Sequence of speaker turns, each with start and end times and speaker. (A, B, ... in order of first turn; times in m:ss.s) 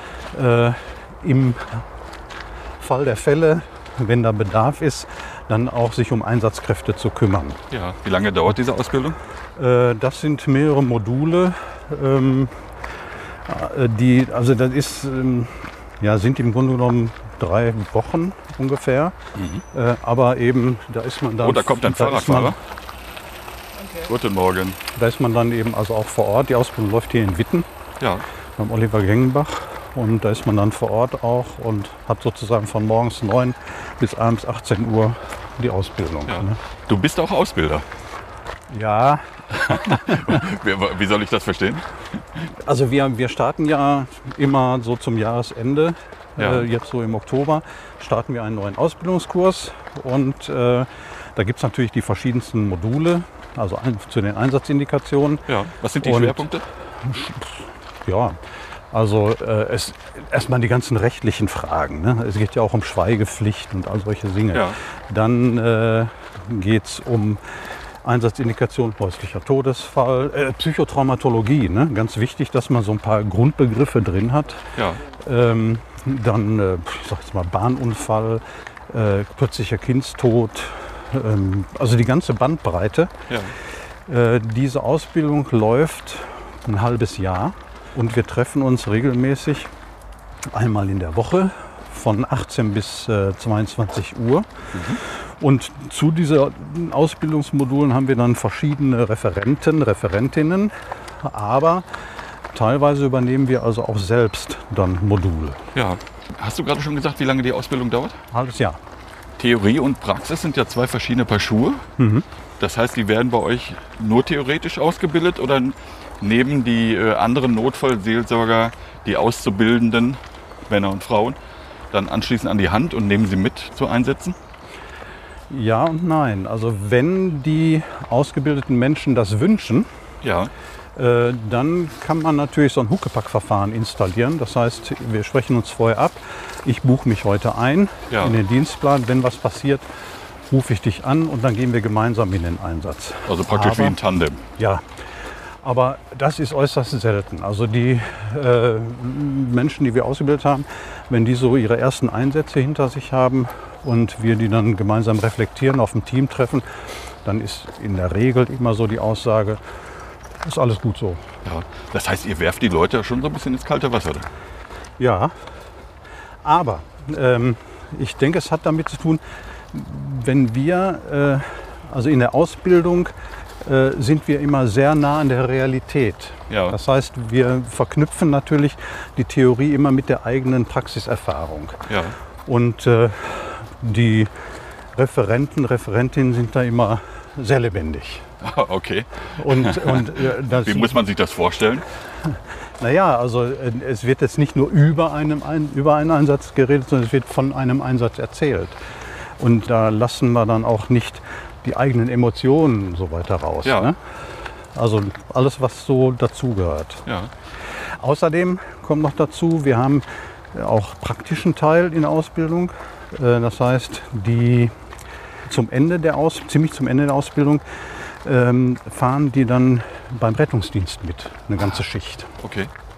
0:00.3-0:01.9 A
0:02.8-0:07.6 A
0:07.7-0:09.2 B
0:09.6-0:12.5 A
0:13.5-0:19.2 A
0:19.4-0:19.6 B
0:19.7-0:22.6 A
0:21.4-0:22.6 B
0:23.9-0:24.8 B
0:24.9-0:27.7 A
0:28.0-0:28.2 B
0:28.6-0:36.6 A
0:36.3-0:37.8 B
0:38.7-0:40.4 A
0:39.5-0:41.8 B
0:42.6-0:55.5 A
0:46.4-0:46.7 B
0:55.5-0:56.6 B
0:56.0-0:56.5 A
0:57.0-0:58.4 A
0:58.9-1:07.4 A
1:04.5-1:04.8 B
1:08.0-1:23.1 A
1:14.8-1:15.0 B
1:24.1-1:29.7 A
1:30.5-1:34.5 A
1:34.7-1:35.0 B
1:35.0-1:41.9 A
1:42.5-1:45.6 A
1:45.8-1:48.2 B
1:48.3-1:48.8 A
1:49.4-1:51.8 B
1:52.0-1:52.2 A
1:52.6-2:01.4 B
2:01.9-2:04.4 B
2:05.5-2:09.9 A
2:10.2-2:10.5 B
2:11.0-2:19.9 A
2:18.1-2:18.4 B
2:20.5-2:24.0 A
2:23.3-2:24.4 B
2:24.6-2:24.8 A
2:25.6-2:36.7 A
2:37.2-2:39.6 A
2:40.4-2:41.2 A
2:41.4-2:44.3 B
2:45.0-2:45.3 A
2:46.4-2:53.1 A
2:53.6-3:01.8 A
2:56.5-2:56.8 B
3:01.9-3:02.2 B
3:02.5-3:04.3 A
3:04.9-3:08.2 A
3:08.4-3:11.8 B
3:09.4-3:11.0 A
3:12.3-3:18.8 A
3:19.4-3:24.0 A
3:23.6-3:23.9 B
3:24.7-3:27.0 A
3:27.1-3:27.3 B
3:27.8-3:34.7 A
3:35.5-3:42.3 A
3:42.4-3:42.7 B